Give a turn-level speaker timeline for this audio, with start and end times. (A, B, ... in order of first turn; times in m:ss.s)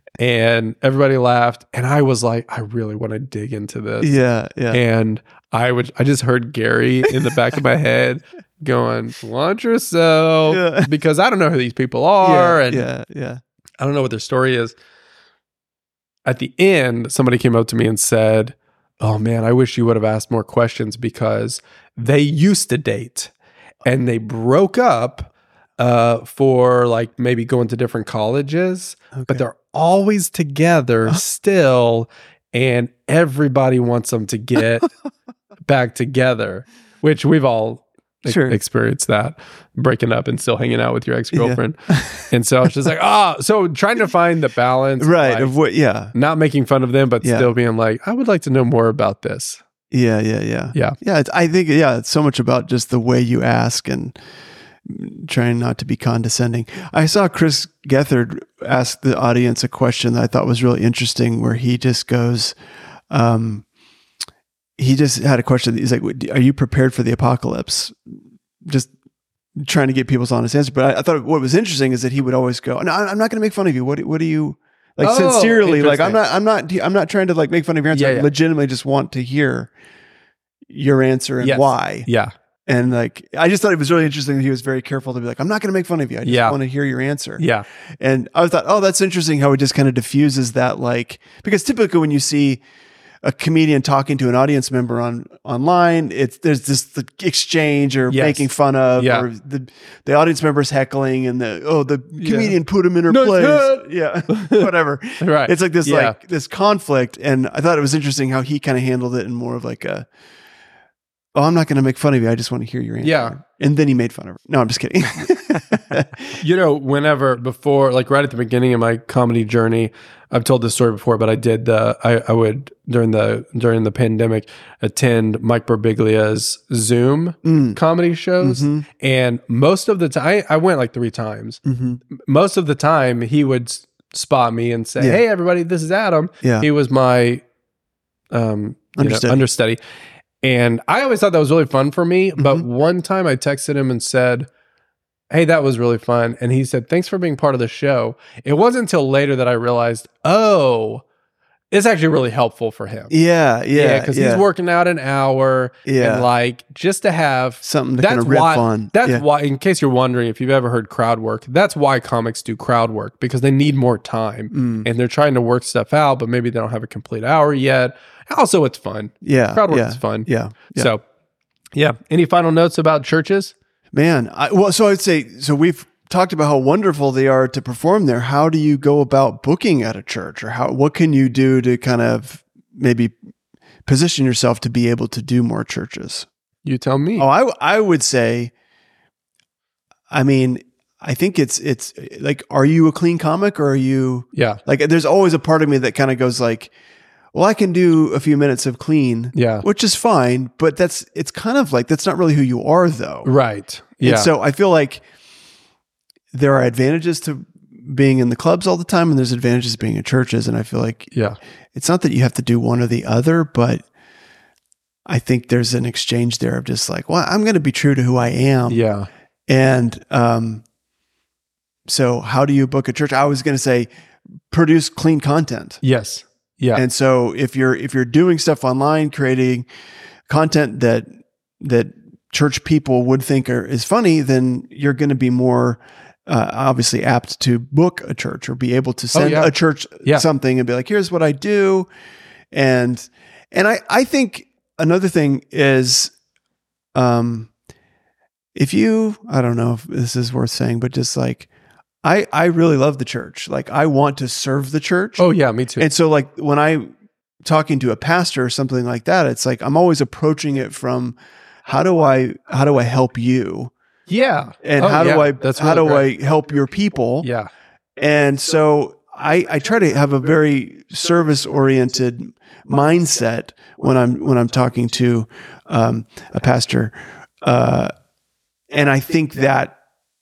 0:00.2-0:04.2 A
0:04.0-0:04.8 B
0:04.7-0:12.9 A
0:10.5-0:10.9 B
0:12.2-0:13.4 B
0:13.8-0:14.7 A
0:16.2-0:23.3 A
0:23.8-0:34.9 A
0:35.7-0:45.5 A
0:38.2-0:38.6 B
0:41.3-0:42.3 B
0:45.0-0:46.1 B
0:46.1-0:49.6 A
0:47.2-0:47.5 B
0:49.9-0:54.2 B
0:54.8-1:02.6 B
1:03.1-1:03.6 B
1:04.8-1:08.9 B
1:09.6-1:19.7 B
1:15.0-1:16.2 A
1:17.9-1:18.3 A
1:20.7-1:22.1 B
1:21.4-1:22.3 A
1:22.7-1:27.4 B
1:26.2-1:26.6 A
1:27.4-1:27.6 A
1:28.0-1:32.6 B
1:33.2-1:50.1 B
1:38.1-1:39.3 A
1:42.2-1:46.2 A
1:51.3-1:56.4 B
1:53.0-1:53.4 A
1:56.3-2:11.6 A
2:07.4-2:07.8 B
2:08.4-2:08.8 B
2:11.6-2:12.0 B
2:12.1-2:17.4 A
2:16.4-2:16.7 B
2:18.3-2:19.8 A
2:19.0-2:19.4 B
2:20.4-2:24.5 A
2:22.4-2:22.6 B
2:25.3-2:31.0 A
2:31.7-2:33.1 A
2:33.1-2:34.4 B
2:33.7-2:51.0 A
2:35.8-2:36.3 B
2:37.6-2:39.2 B
2:44.5-2:44.8 B
2:49.2-2:50.9 B
2:51.7-2:53.5 A
2:53.9-3:03.1 B
3:03.8-3:06.3 B
3:06.6-3:07.3 A
3:07.2-3:08.5 B
3:10.1-3:16.7 B
3:14.3-3:14.6 A
3:17.3-3:23.3 B
3:19.3-3:19.6 A
3:23.2-3:24.3 A
3:24.0-3:25.0 B
3:26.3-3:31.1 B
3:31.7-3:33.8 B
3:35.0-3:38.8 B
3:38.7-3:39.1 A
3:39.5-3:40.6 B
3:41.9-3:43.9 B
3:44.5-3:45.8 B
3:45.8-3:46.8 A
3:46.7-3:49.7 B
3:50.3-3:51.1 B
3:51.6-4:01.9 B
3:59.1-4:00.2 A
4:02.5-4:06.1 B
4:06.9-4:07.5 B
4:08.5-4:11.5 B
4:12.0-4:15.2 B
4:15.2-4:15.8 A
4:15.8-4:16.9 B
4:17.4-4:23.7 B
4:24.1-4:26.1 A
4:24.6-4:27.3 B
4:27.2-4:27.5 A
4:28.0-4:37.9 B
4:38.7-4:39.8 B